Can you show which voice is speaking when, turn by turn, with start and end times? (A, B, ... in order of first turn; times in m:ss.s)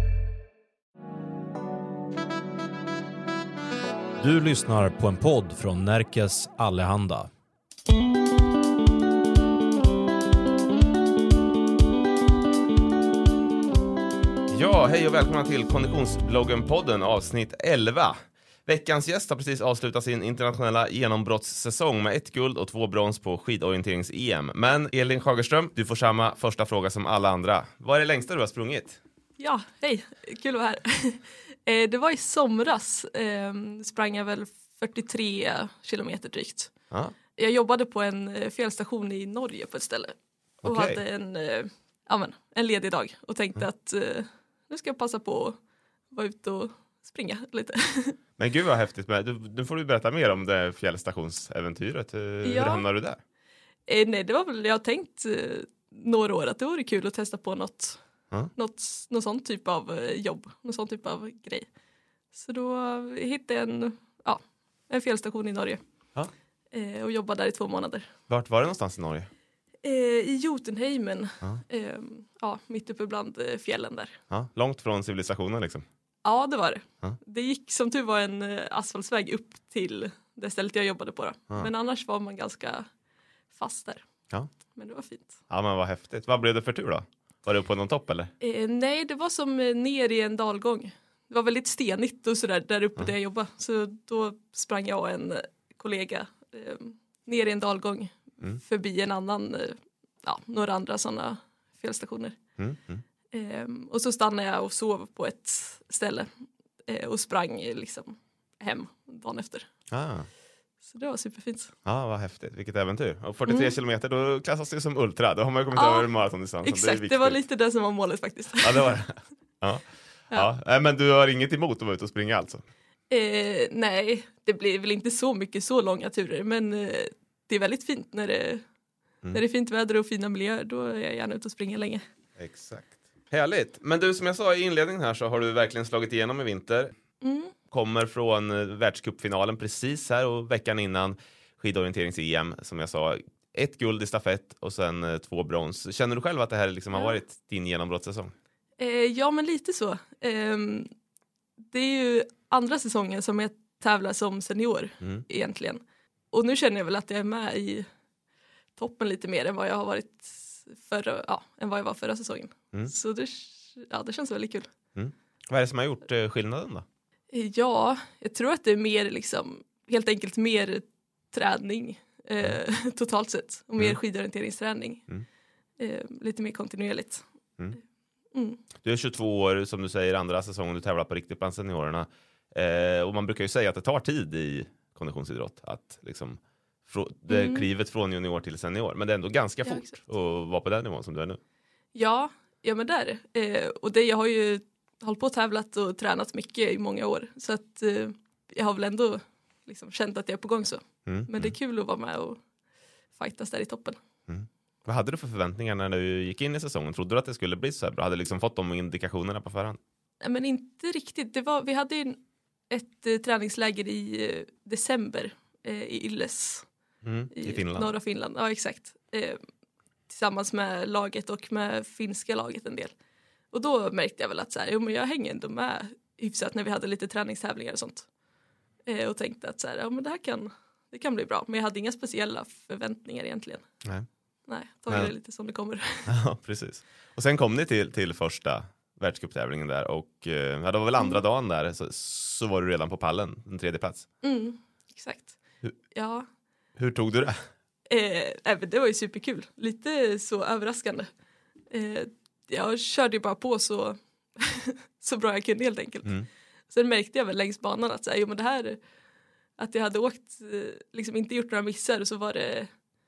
0:04.2-0:07.3 A
0:14.5-0:29.0 B
0:29.4-0:36.7 C
0:37.4-0:45.6 C
0:40.6-0:41.0 B
0:46.1-0:48.2 C
0:48.4-0:53.2 B
0:52.4-0:52.8 C
0:53.9-0:58.0 C
0:58.6-1:01.7 C
1:02.3-1:05.8 C
1:06.7-1:08.1 C
1:08.3-1:09.3 B
1:09.8-1:14.2 C
1:14.3-1:15.8 B
1:16.2-1:22.9 C
1:23.5-1:24.0 C
1:24.8-1:25.4 C
1:25.5-1:28.3 B
1:28.4-1:42.4 C
1:42.6-1:43.0 B
1:43.3-1:46.3 C
1:46.9-1:49.7 C
1:49.9-1:50.3 B
1:50.8-1:51.7 C
1:51.8-1:57.4 B
1:53.5-1:53.8 C
1:55.8-1:56.1 C
1:56.6-1:59.0 C
1:58.6-2:02.6 B
2:03.1-2:08.6 C
2:09.3-2:12.0 C
2:12.4-2:16.9 B
2:17.2-2:17.5 C
2:17.7-2:28.3 B
2:28.8-2:30.9 C
2:31.7-2:35.8 C
2:36.3-2:37.9 C
2:38.8-2:44.7 C
2:45.0-2:46.8 B
2:47.3-2:55.0 C
2:55.8-2:57.2 C
2:58.3-2:58.6 C
2:58.8-3:11.4 B
3:07.3-3:07.7 C
3:09.6-3:10.0 C
3:12.0-3:22.4 C
3:21.1-3:21.5 B
3:23.2-3:24.0 C
3:24.3-3:29.8 B
3:30.2-3:32.2 C
3:32.7-3:36.7 C
3:37.0-3:37.9 B
3:37.3-3:39.4 C
3:40.1-3:42.9 C
3:43.5-3:48.1 C
3:48.9-3:53.6 C
3:54.5-3:56.1 C
3:56.1-4:04.1 B
4:04.2-4:05.4 C
4:05.9-4:06.3 C
4:06.8-4:07.4 B
4:07.9-4:11.1 C
4:11.7-4:16.1 C
4:16.7-4:18.8 C
4:19.6-4:22.7 C